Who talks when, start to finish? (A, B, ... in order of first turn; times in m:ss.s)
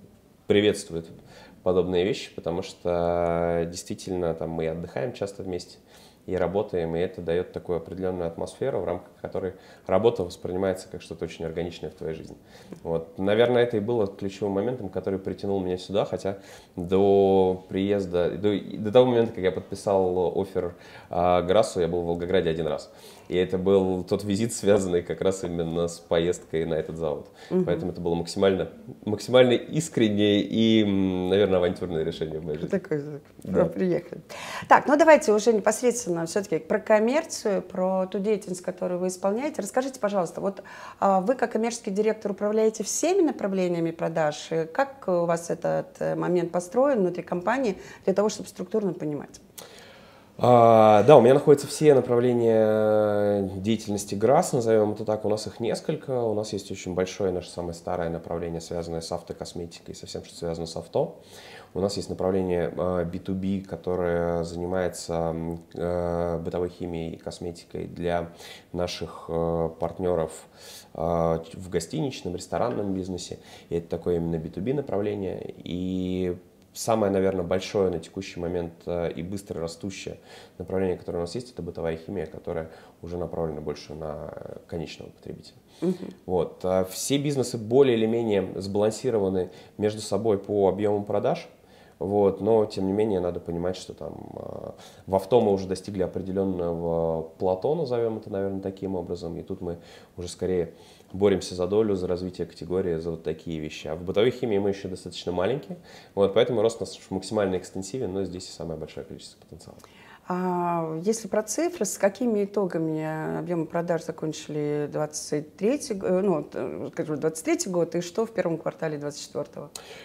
0:00.5-0:32.8 A
0:27.5-0:27.8 B
0:32.6-0:49.4 B
0:33.4-0:33.7 A
0:50.4-1:01.2 A
1:01.7-1:25.6 A
1:25.8-1:26.1 B
1:26.2-1:49.8 A
1:50.3-1:59.7 B